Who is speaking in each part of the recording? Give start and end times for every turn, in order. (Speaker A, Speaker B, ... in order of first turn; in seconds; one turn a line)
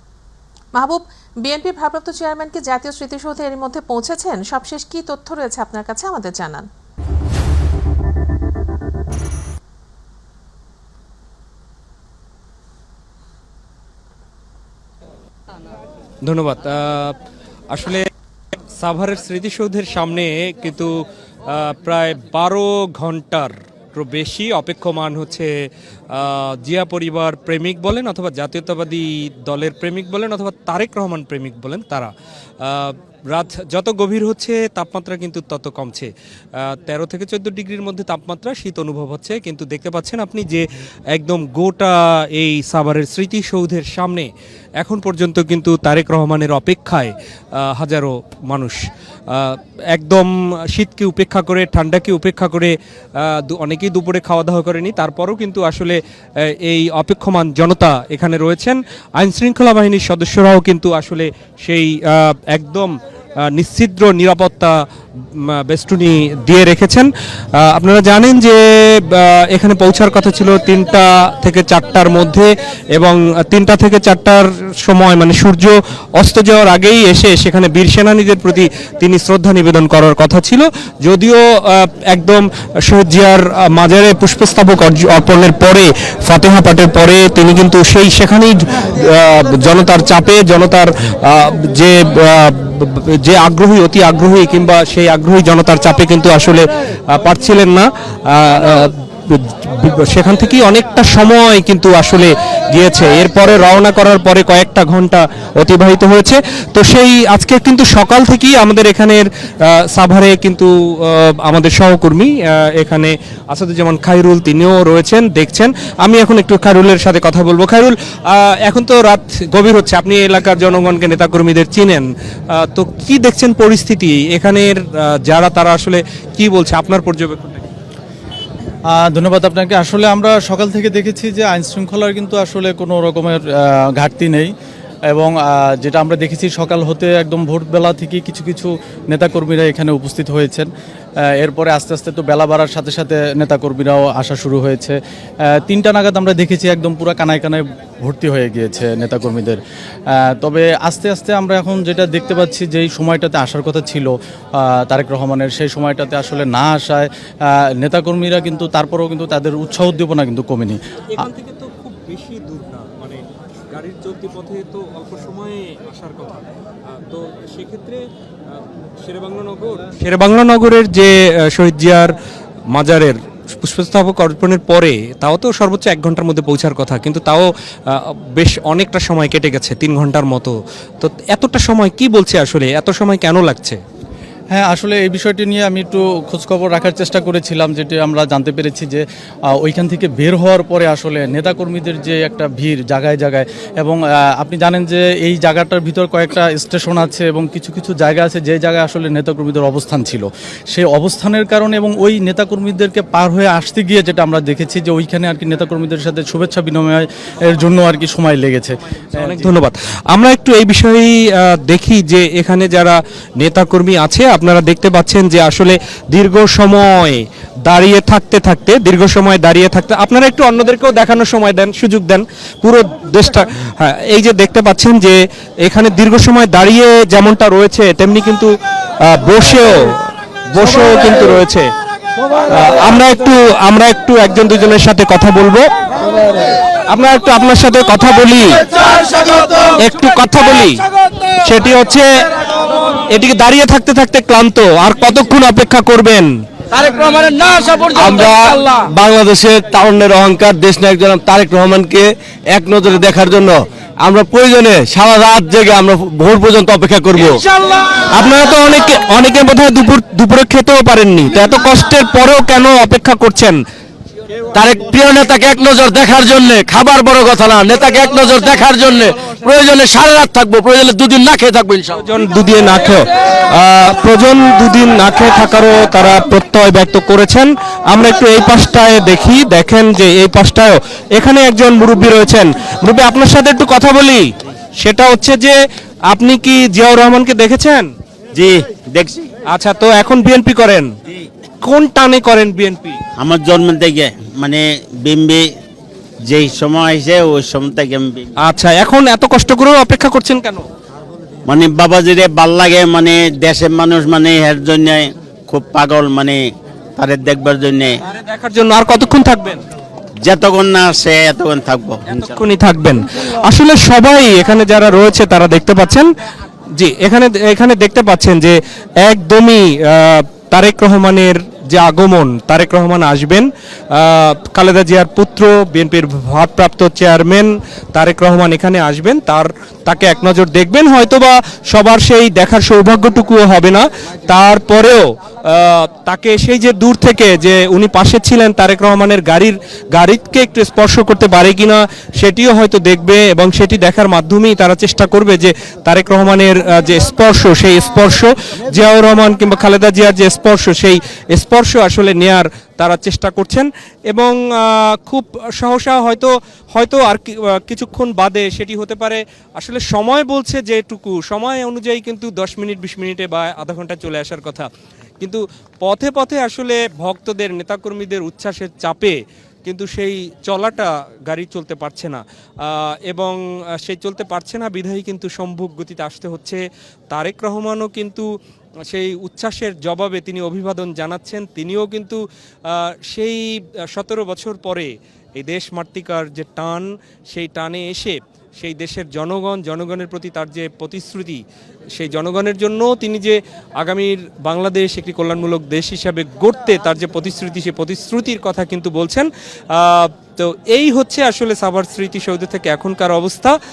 Speaker A: 0.7-6.7
Speaker B: 16.2-17.2
Speaker B: 17.7-18.1
Speaker B: 18.8-20.9
Speaker B: 21.5-25.5
Speaker B: 26.1-32.1
Speaker B: 32.6-44.3
Speaker B: 44.8-48.8
Speaker B: 49.3-63.0
Speaker B: 63.5-64.7
Speaker B: 65.3-127.7
Speaker C: 128.9-134.5
Speaker C: 135.1-140.7
Speaker C: 141.4-161.3
Speaker B: 161.1-172.2
Speaker B: 172.7-183.8
Speaker C: 184.5-189.0
Speaker C: 189.6-209.5
Speaker B: 209.2-228.5
Speaker B: 229.1-231.7
Speaker B: 232.5-235.7
Speaker B: 236.9-239.1
Speaker B: 239.8-240.8
Speaker B: 241.4-242.1
Speaker B: 243.1-246.3
Speaker D: 246.7-257.4
Speaker B: 258.1-263.6
Speaker D: 264.5-272.0
Speaker B: 272.0-284.3
Speaker B: 284.8-285.6
Speaker B: 286.1-287.9
Speaker E: 288.3-289.3
Speaker B: 289.5-290.9
Speaker B: 291.6-293.0
Speaker E: 293.2-295.5
Speaker E: 296.3-298.3
Speaker B: 298.4-300.7
Speaker E: 301.4-306.4
Speaker E: 307.0-308.0
Speaker B: 308.1-309.6
Speaker E: 310.2-312.4
Speaker B: 312.1-316.1
Speaker B: 316.8-364.7
Speaker B: 365.2-378.3
Speaker B: 378.9-391.4
Speaker B: 391.9-403.6